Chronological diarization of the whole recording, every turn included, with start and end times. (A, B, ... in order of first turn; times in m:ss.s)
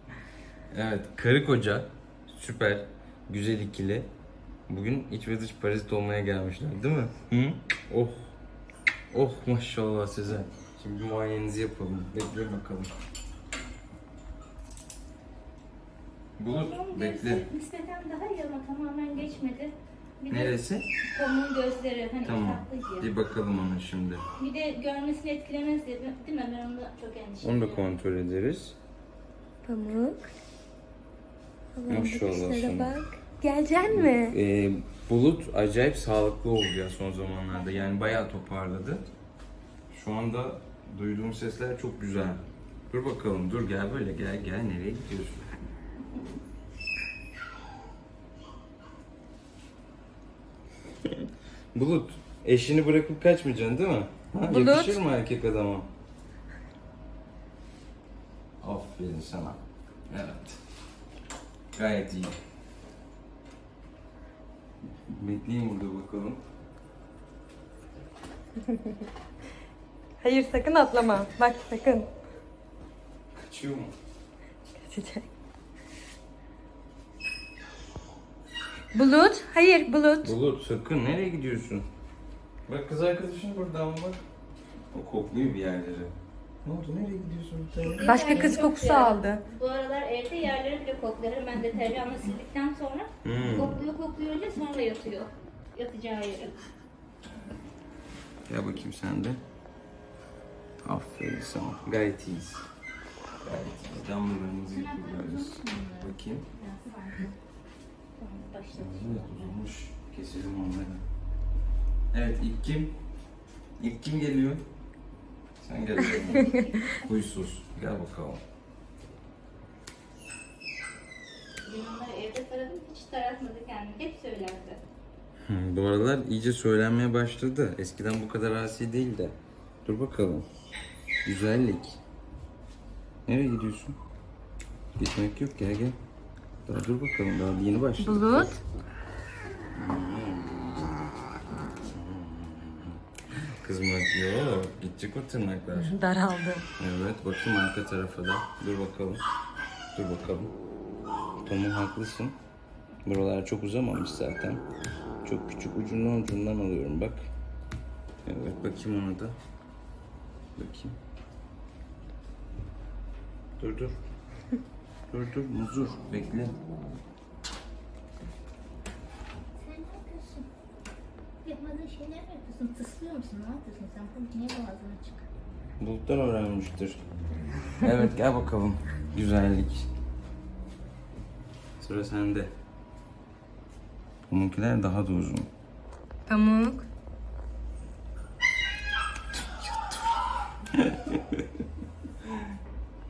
0:00.7-0:04.1 A
0:04.7-0:08.3 A
0:09.1-0:12.9 A
0:16.4-0:17.5 A
0:16.5-0:23.1 B
0:20.3-0:20.9 A
0:22.2-0:24.2 A
0:24.4-0:27.9 B
0:27.4-0:28.8 A
0:29.6-0:30.3 C
0:31.7-0:34.4 C
0:31.9-0:33.0 A
0:33.8-0:39.0 A
0:37.5-0:38.1 B
0:39.9-0:45.5 A
0:51.7-0:55.9 A
0:54.4-0:55.0 C
0:58.6-1:00.6 A
1:01.7-1:02.4 A
1:05.1-1:06.4 A
1:10.2-1:12.1 C
1:13.3-1:13.9 A
1:14.8-1:15.2 C
1:18.9-1:20.3 C
1:20.2-1:21.8 A
1:22.7-1:24.2 A
1:24.9-1:28.6 A
1:27.9-1:36.6 B
1:28.0-1:29.4 C
1:33.2-1:33.8 A
1:38.5-1:39.4 A
1:40.8-1:42.6 A
1:43.4-1:46.5 A
1:44.7-1:47.3 B
1:48.2-1:49.6 B
1:48.7-1:51.0 A
1:52.1-1:52.9 A
1:53.8-1:54.6 A
1:55.6-1:58.4 A
1:55.9-1:57.0 B
2:01.6-2:04.8 B
2:05.4-2:10.4 A
2:11.2-2:12.0 A
2:13.3-2:14.0 A
2:15.0-2:16.0 A
2:16.6-2:18.6 A
2:18.0-2:18.6 C
2:19.7-2:20.9 A
2:21.9-2:26.0 A
2:25.7-2:26.6 C
2:26.8-2:29.2 A
2:29.9-2:30.5 A
2:31.4-2:32.4 A
2:33.0-2:34.6 A
2:35.2-2:37.2 A
2:38.2-2:39.4 A
2:40.6-2:41.0 A
2:43.6-2:43.9 A
2:45.1-2:46.6 A
2:49.6-2:50.5 B
2:51.4-2:55.2 B
2:55.8-2:57.0 A
2:57.8-2:59.9 A
3:01.8-3:02.5 A
3:04.3-3:05.5 A
3:06.3-3:06.8 C
3:09.4-3:10.0 A
3:10.7-3:11.4 A